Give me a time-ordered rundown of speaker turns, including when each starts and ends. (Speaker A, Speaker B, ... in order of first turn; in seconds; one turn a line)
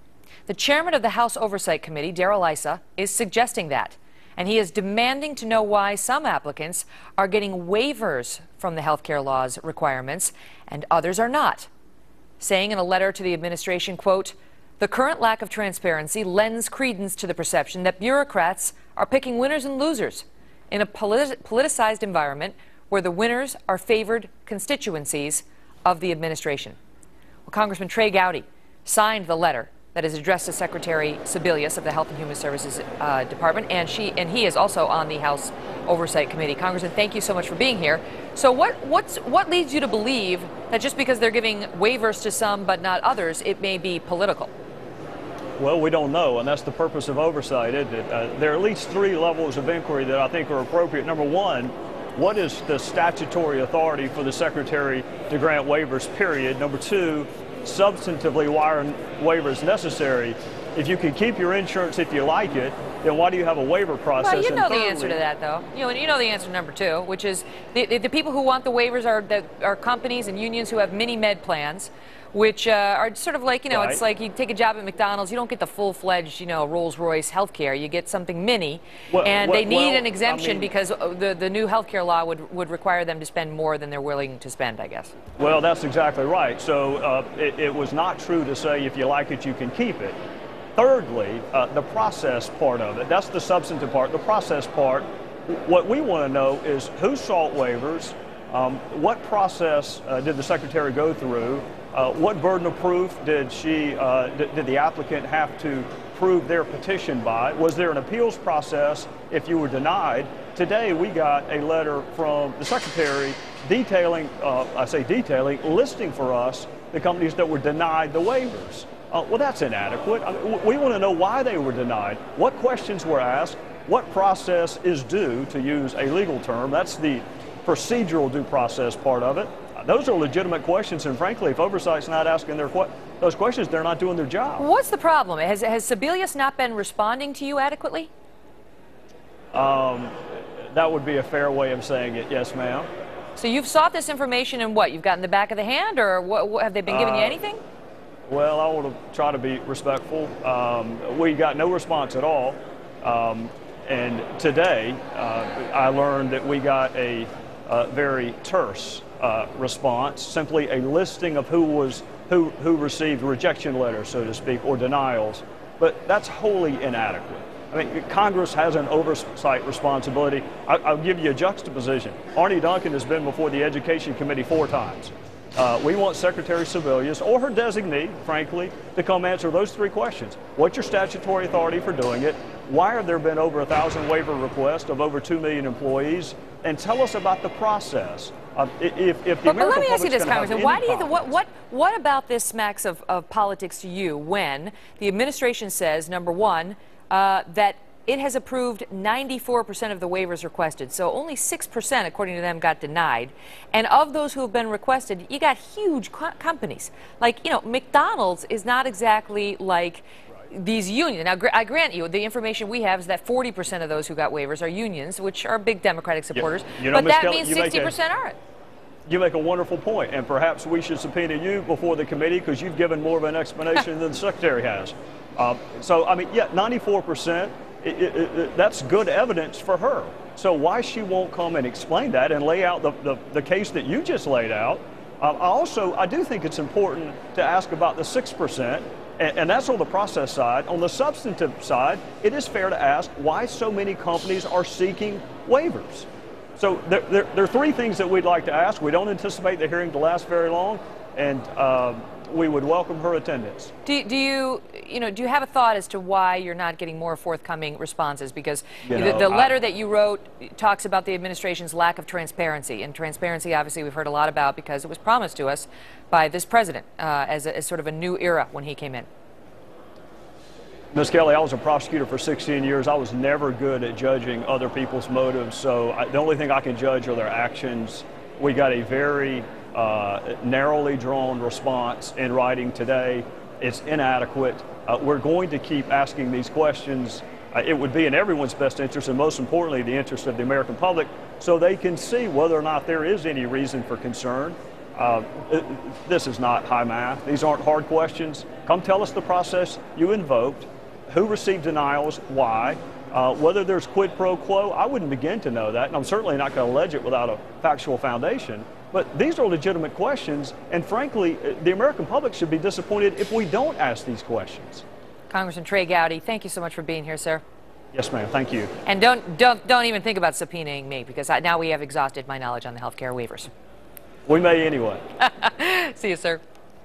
Speaker A: 0.5-11.7
Speaker A: 12.4-26.8
Speaker A: 27.5-44.5
Speaker B: 45.6-65.2
Speaker A: 64.2-85.1
Speaker B: 73.7-74.0
Speaker B: 79.1-80.7
Speaker B: 85.4-90.2
Speaker B: 90.8-134.7
Speaker A: 134.6-138.1
Speaker B: 139.5-142.9
Speaker A: 143.4-147.6
Speaker B: 146.9-147.4
Speaker B: 148.3-191.4
Speaker A: 189.4-218.4
Speaker B: 216.3-218.0
Speaker B: 219.1-253.7
Speaker A: 253.8-269.1
Speaker B: 258.9-259.5
Speaker B: 270.9-314.9
Speaker A: 315.3-317.4
Speaker B: 317.9-318.7
Speaker A: 318.9-323.5
Speaker B: 324.3-325.0
Speaker A: 325.2-326.4